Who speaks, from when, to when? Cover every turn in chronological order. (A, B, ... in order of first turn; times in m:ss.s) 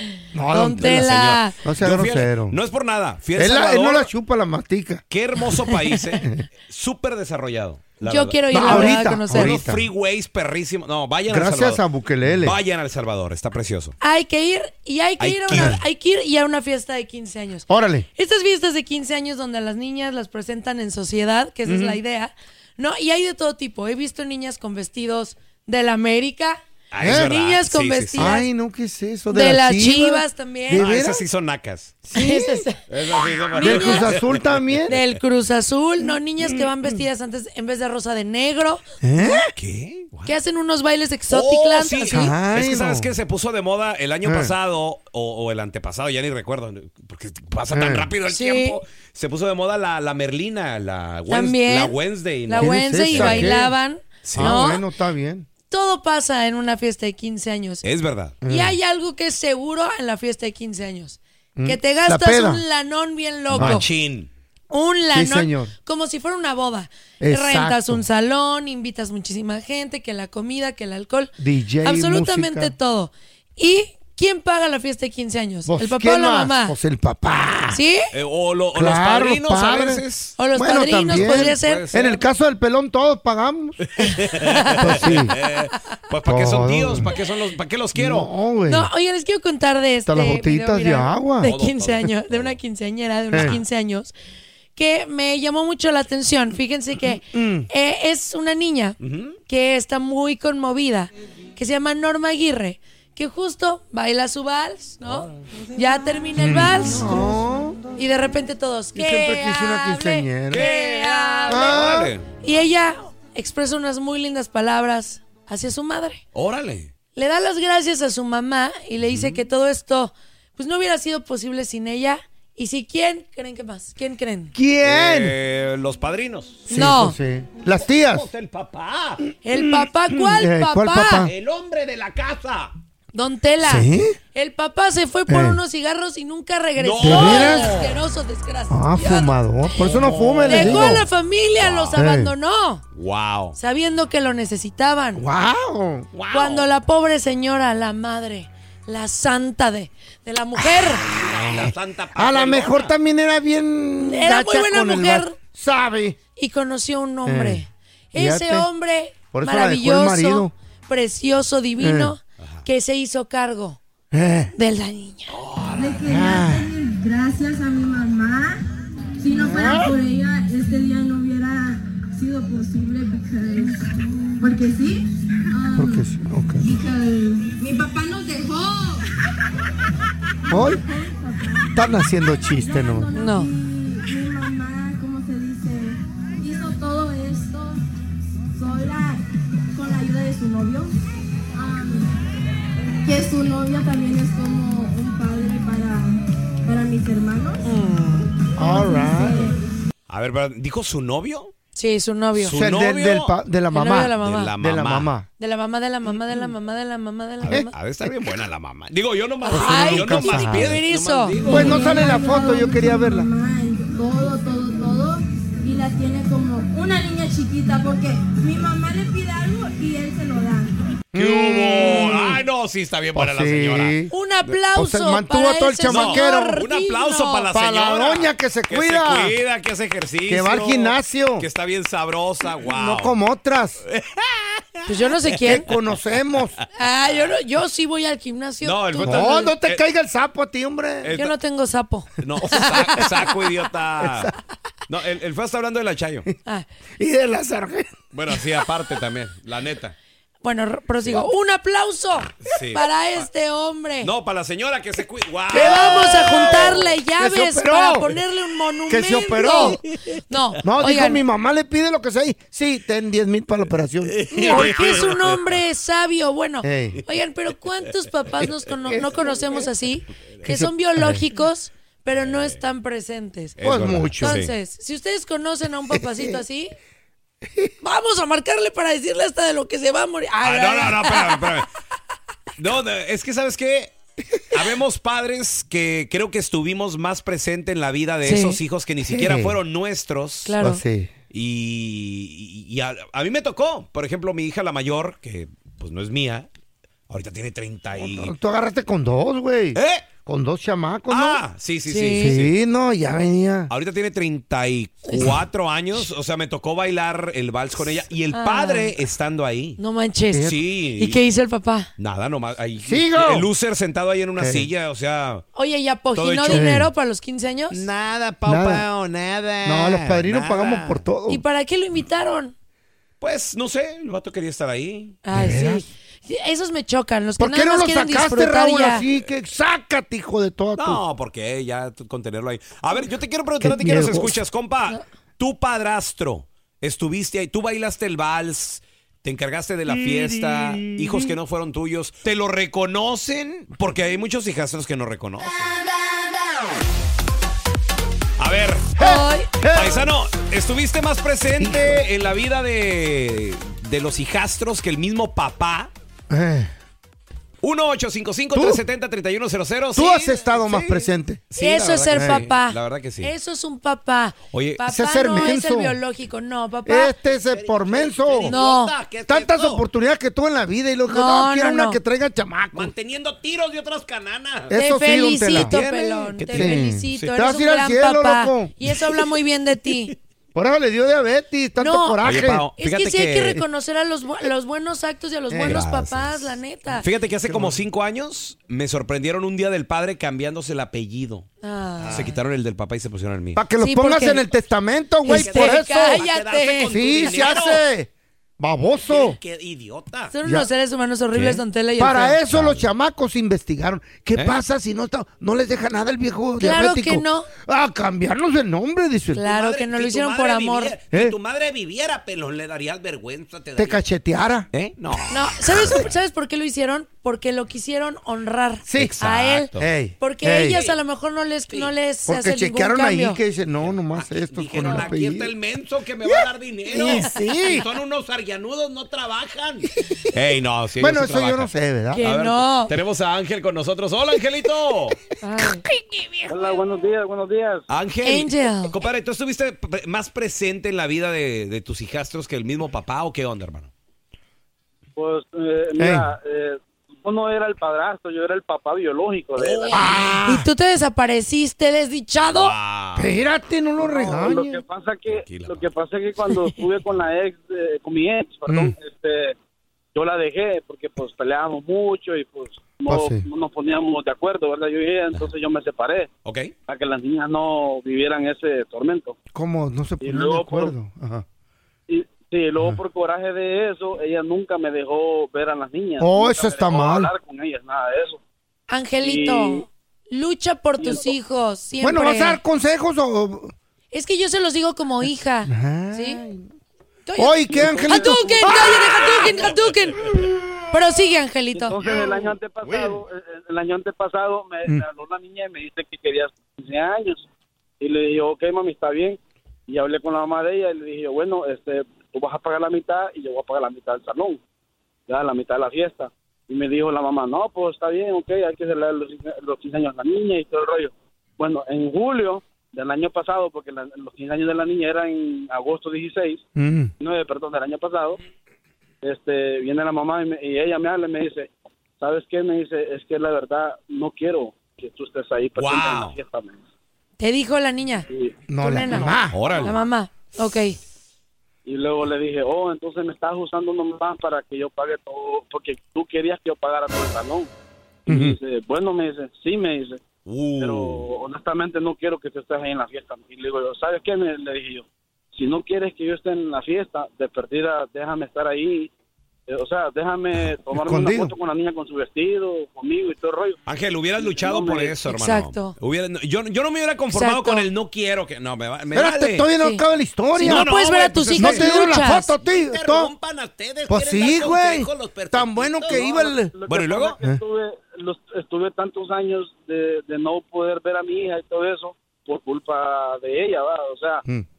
0:00.3-0:02.6 A
0:00.5-0:01.6 B
0:00.8-0:04.1 C
0:03.4-0:05.0 A
0:05.1-0:14.0 C
0:08.0-0:09.6 B
0:08.5-0:09.8 A
0:11.3-0:12.6 A
0:14.0-0:28.5 B
0:15.2-0:15.8 C
0:15.5-0:15.8 A
0:17.7-0:18.1 A
0:21.6-0:22.0 A
0:26.9-0:28.4 C
0:27.0-0:27.3 A
0:28.2-0:31.2 A
0:29.3-0:30.9 B
0:30.7-0:32.0 C
0:32.1-0:32.6 A
0:32.1-0:32.8 B
0:32.9-0:35.2 C
0:33.5-0:34.2 B
0:33.6-0:34.9 A
0:34.9-0:38.8 B
0:36.6-0:36.9 A
0:39.0-0:39.5 A
0:39.5-0:40.3 C
0:40.2-0:42.3 B
0:41.3-0:53.6 C
0:42.1-0:43.1 A
0:44.2-0:44.5 A
0:47.7-0:48.1 A
0:48.3-0:48.8 B
0:51.3-0:54.8 B
0:52.6-0:53.7 A
0:54.2-0:54.6 C
0:54.3-0:55.5 A
0:55.7-0:57.8 B
0:57.8-0:58.4 C
0:58.4-0:58.8 A
0:58.4-1:03.9 B
1:01.6-1:02.6 A
1:03.5-1:04.3 C
1:03.5-1:03.8 A
1:04.7-1:16.8 B
1:05.1-1:05.7 A
1:07.2-1:08.0 A
1:11.4-1:12.7 A
1:15.6-1:17.8 A
1:17.7-1:18.1 B
1:18.1-1:20.4 C
1:18.7-1:24.1 A
1:20.4-1:21.8 B
1:21.1-1:22.2 C
1:23.8-1:28.3 C
1:24.4-1:25.0 B
1:24.8-1:25.4 A
1:26.3-1:27.1 A
1:27.9-1:28.9 A
1:28.7-1:34.1 B
1:30.1-1:31.5 A
1:31.4-1:32.6 C
1:33.3-1:33.6 A
1:34.8-1:47.3 B
1:37.3-1:37.7 A
1:39.0-1:39.4 C
1:46.4-1:47.8 A
1:48.0-1:51.8 B
1:48.9-1:50.7 A
1:50.5-1:52.3 C
1:51.5-1:52.1 A
1:52.4-1:56.2 B
1:56.3-1:56.9 C
1:57.2-2:04.5 B
1:59.0-1:59.4 C
2:04.5-2:05.4 A
2:04.8-2:06.8 C
2:06.7-2:07.2 B
2:06.7-2:08.3 A
2:07.7-2:09.2 C
2:09.4-2:11.3 B
2:09.5-2:11.3 A
2:11.2-2:12.7 C
2:13.1-2:19.4 B
2:13.6-2:14.2 A
2:15.3-2:15.6 A
2:16.8-2:18.0 C
2:17.0-2:17.8 A
2:18.7-2:21.0 A
2:19.8-2:21.1 C
2:20.5-2:22.8 B
2:21.6-2:22.0 C
2:21.9-2:22.3 A
2:22.9-2:23.6 C
2:23.6-2:25.2 B
2:25.2-2:26.1 A
2:26.1-2:26.7 C
2:26.3-2:31.0 B
2:31.1-2:32.9 C
2:31.2-2:36.2 A
2:34.0-2:35.4 B
2:36.4-2:43.8 B
2:37.2-2:38.7 A
2:39.3-2:40.5 A
2:41.8-2:42.1 A
2:44.1-2:44.5 A
2:44.5-2:45.4 B
2:45.4-2:46.0 C
2:45.8-2:48.6 D
2:46.0-2:46.7 A
2:49.2-2:56.0 D
2:49.3-2:50.0 A
2:55.7-2:56.6 A
2:56.6-2:59.1 D
3:00.4-3:01.7 D
3:00.5-3:00.8 A
3:01.7-3:03.1 A
3:02.4-3:07.8 D
3:03.1-3:03.5 B
3:08.5-3:10.9 D
3:11.5-3:12.1 D
3:13.0-3:17.6 D
3:17.6-3:18.3 B
3:18.6-3:19.5 A
3:18.6-3:19.6 D
3:20.1-3:21.5 C
3:21.8-3:22.6 B
3:22.4-3:23.4 C
3:22.5-3:25.3 A
3:23.7-3:24.5 B
3:24.2-3:25.1 C
3:25.4-3:27.7 B
3:27.4-3:31.8 C
3:29.5-3:31.7 B
3:29.5-3:30.8 A
3:31.5-3:33.3 A
3:31.5-3:40.8 D
3:41.1-3:42.4 A
3:41.1-3:43.9 C
3:43.1-3:46.6 A
3:44.1-3:47.5 B
3:45.9-3:53.2 C
3:47.5-3:49.4 A
3:50.3-3:51.5 A
3:52.6-3:53.8 A
3:53.8-3:55.8 C
3:54.9-3:55.7 B
3:55.4-3:56.5 A
3:56.7-3:59.5 B
3:58.6-3:59.8 C
3:59.0-4:01.2 A
4:01.0-4:01.3 C
4:01.1-4:03.0 B
4:02.2-4:04.3 C
4:04.0-4:04.3 A
4:04.9-4:06.3 C
4:07.0-4:08.0 A
4:08.1-4:09.9 C
4:10.4-4:14.1 B
4:12.4-4:13.2 C
4:14.0-4:17.0 C
4:15.5-4:18.2 A
4:15.5-4:21.2 B
4:18.9-4:19.8 A
4:20.6-4:24.9 A
4:24.1-4:25.5 C
4:24.4-4:33.6 B
4:26.6-4:27.0 A
4:28.9-4:29.2 A
4:30.4-4:31.2 A
4:32.2-4:32.6 C
4:33.6-4:34.5 C
4:33.6-4:34.4 A
4:34.2-4:36.8 B
4:35.9-4:36.4 A
4:37.8-4:41.5 B
4:40.4-4:41.7 C
4:42.6-4:43.9 C
4:44.5-4:50.6 C
4:48.2-4:48.6 B
4:49.0-4:49.6 A
4:50.4-4:50.8 B
4:50.6-4:51.1 A
4:51.3-4:56.5 C
4:57.1-4:58.3 C
4:58.0-5:01.4 A
4:59.7-5:00.1 C
5:01.1-5:02.6 C
5:01.9-5:02.4 B
5:02.1-5:03.7 A
5:03.7-5:09.8 C
5:08.3-5:09.0 B
5:09.8-5:11.9 B
5:10.4-5:11.2 C
5:12.0-5:15.4 C
5:12.8-5:13.5 A
5:14.4-5:14.7 A
5:15.5-5:17.8 B
5:16.1-5:16.7 C
5:16.5-5:16.9 A
5:17.7-5:21.0 C
5:18.4-5:18.8 A
5:19.6-5:21.4 A
5:21.3-5:22.5 B
5:23.2-5:25.2 C
5:25.2-5:29.0 B
5:25.3-5:25.9 A
5:27.4-5:31.0 A
5:30.8-5:45.7 C
5:33.6-5:34.4 A
5:39.8-5:41.3 A
5:48.4-5:49.0 C
5:49.0-5:50.0 A
5:49.0-5:49.5 B
5:49.7-5:55.9 C
5:51.6-5:52.0 A
5:56.3-5:56.7 A
5:57.6-6:03.3 C
5:58.5-5:58.8 A
5:59.9-6:01.4 A
6:01.6-6:07.1 B
6:02.1-6:02.5 A
6:04.5-6:04.8 C
6:04.8-6:06.0 A
6:06.8-6:08.6 A
6:07.3-6:09.8 C
6:08.4-6:08.9 B
6:09.3-6:12.9 A
6:11.1-6:12.0 B
6:12.7-6:14.7 C
6:14.7-6:15.8 A
6:14.7-6:20.1 B
6:15.5-6:17.3 C
6:16.5-6:18.7 A
6:20.5-6:22.6 A
6:21.8-6:22.2 B
6:22.2-6:23.6 C
6:22.8-6:27.0 B
6:25.5-6:25.9 A
6:25.7-6:26.4 C
6:27.0-6:31.5 C
6:27.4-6:27.8 A
6:31.6-6:32.4 B
6:32.0-6:33.6 C
6:33.6-6:36.2 A
6:33.8-6:34.4 B
6:35.2-6:37.0 B
6:35.3-6:37.8 C
6:36.8-6:39.4 A
6:39.0-6:40.3 C
6:40.3-6:42.4 B
6:40.4-6:40.7 A
6:41.3-6:41.6 C
6:42.0-6:49.4 A
6:42.5-6:42.8 C
6:46.6-6:47.5 B
6:49.3-6:50.9 B
6:49.4-6:54.0 C
6:53.8-6:54.7 A
6:54.7-6:56.0 C
6:55.3-7:03.4 B
6:58.9-6:59.2 A
6:59.0-6:59.9 C
6:59.7-7:00.8 A
7:00.7-7:01.0 C
7:02.3-7:05.5 A
7:03.8-7:15.2 C
7:06.9-7:07.8 A
7:07.0-7:07.3 B
7:11.0-7:12.2 A
7:12.1-7:12.9 B
7:15.4-7:15.8 B
7:15.6-7:16.8 A
7:16.5-7:17.8 E
7:17.9-7:23.9 C
7:18.2-7:18.9 B
7:25.2-7:30.0 E
7:26.0-7:26.3 A
7:29.6-7:30.4 C
7:29.9-7:30.7 A
7:30.4-7:32.7 B
7:32.5-7:33.3 C
7:33.2-7:34.8 A
7:34.0-7:39.6 E
7:35.3-7:35.8 C
7:38.7-7:39.0 A
7:40.1-7:46.3 E
7:43.1-7:43.4 A
7:46.4-7:46.7 C
7:46.9-7:49.4 E
7:49.5-7:51.4 A
7:50.2-7:50.9 E
7:52.1-7:58.4 E
7:56.2-7:57.3 A
7:58.9-8:02.6 B
7:59.2-7:59.9 E
8:01.0-8:01.3 E
8:02.0-8:03.7 A
8:04.1-8:06.4 B
8:05.6-8:06.7 A
8:07.2-8:10.2 B
8:07.4-8:09.2 A
8:07.7-8:08.5 E
8:10.9-8:12.0 B
8:11.8-8:17.4 E
8:12.9-8:13.2 A
8:18.0-8:24.6 E
8:25.3-8:36.6 E
8:36.8-8:37.1 A
8:37.2-8:38.4 E
8:39.2-8:46.8 E
8:45.8-8:46.4 C
8:47.4-8:48.3 B
8:48.3-8:48.6 E
8:48.7-8:49.8 A
8:48.8-8:51.0 B
8:49.5-8:49.9 C
8:51.8-8:57.7 E
8:58.2-9:00.2 E
8:58.3-8:58.6 A
9:00.4-9:01.2 C
9:00.8-9:09.1 E
9:09.7-9:13.8 E
9:10.9-9:11.5 A
9:13.8-9:19.7 C
9:14.4-9:15.2 E
9:15.3-9:16.0 B
9:17.3-9:17.8 B
9:19.1-9:20.9 A
9:20.5-9:22.5 B
9:20.6-9:26.2 C
9:21.6-9:23.3 A
9:24.1-9:26.7 A
9:26.1-9:34.4 E
9:26.9-9:27.4 C